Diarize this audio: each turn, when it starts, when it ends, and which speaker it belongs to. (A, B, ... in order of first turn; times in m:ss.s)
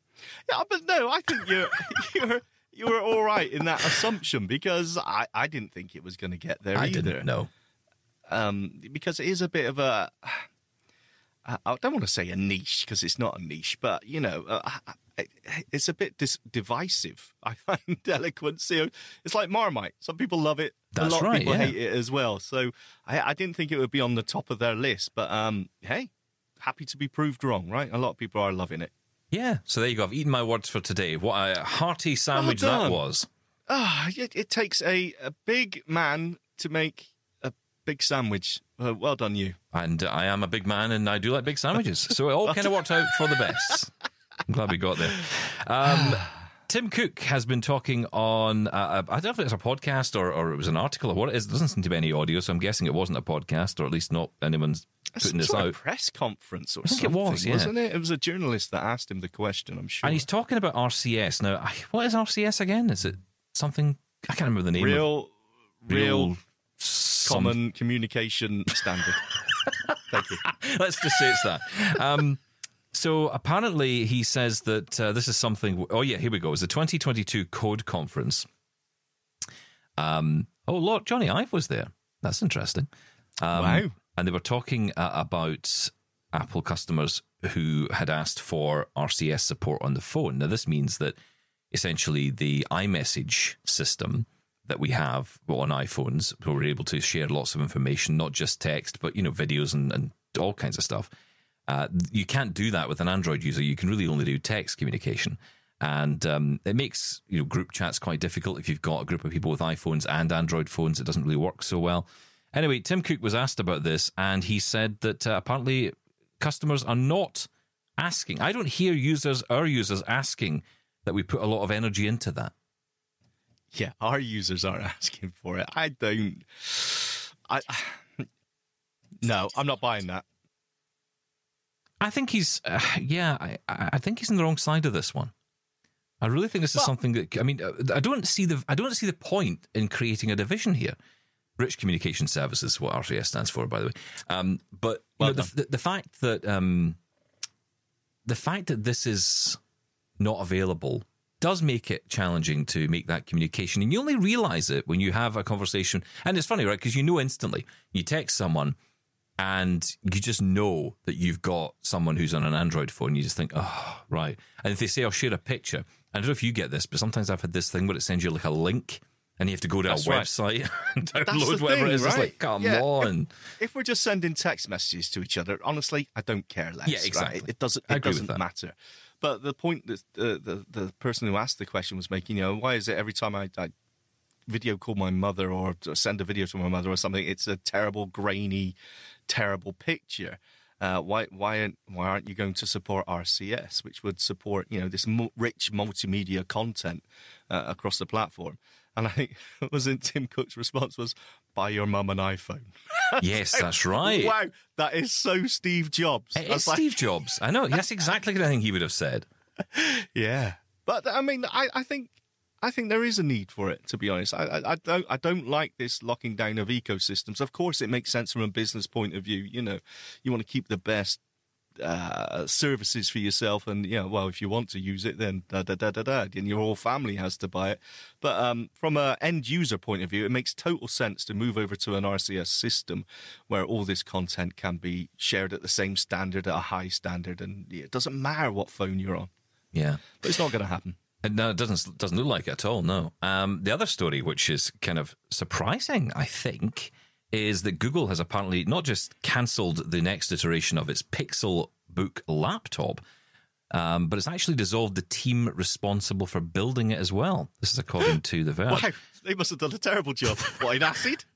0:00.5-0:07.2 A
0:06.7-0:07.5 B
0:08.3-0:10.4 A
0:11.4-0:26.1 A
0:20.9-0:21.8 B
0:26.6-0:28.9 A
0:29.3-0:33.3 B
0:32.3-0:33.0 A
0:33.7-0:39.6 A
0:39.7-0:43.9 B
0:42.5-0:43.7 A
0:44.5-0:55.8 B
0:45.9-0:46.1 A
0:55.2-1:00.3 A
0:56.8-0:57.7 B
1:00.0-1:05.1 B
1:04.8-1:05.3 A
1:05.8-1:06.3 A
1:05.9-1:07.6 B
1:07.2-1:09.2 A
1:09.5-1:12.4 B
1:10.1-1:10.4 A
1:12.9-1:18.5 B
1:20.0-1:22.9 B
1:23.4-1:31.2 B
1:23.5-1:24.0 A
1:31.7-1:41.1 B
1:41.7-2:02.5 B
2:03.7-2:08.2 A
2:09.2-2:10.2 A
2:12.0-2:15.3 B
2:16.2-2:21.0 B
2:21.6-2:27.0 B
2:25.2-2:25.5 A
2:28.2-2:29.6 B
2:30.2-2:38.8 B
2:39.4-2:53.3 B
2:49.9-2:50.3 A
2:51.3-3:03.7 A
2:56.8-2:58.4 B
3:04.5-3:08.8 A
3:09.3-3:27.0 A
3:23.2-3:24.3 B
3:26.4-3:29.2 B
3:29.7-3:41.2 A
3:41.8-3:59.3 A
3:59.7-4:00.0 B
4:00.2-4:01.0 A
4:01.2-4:13.0 B
4:13.7-4:18.9 B
4:18.0-4:21.2 A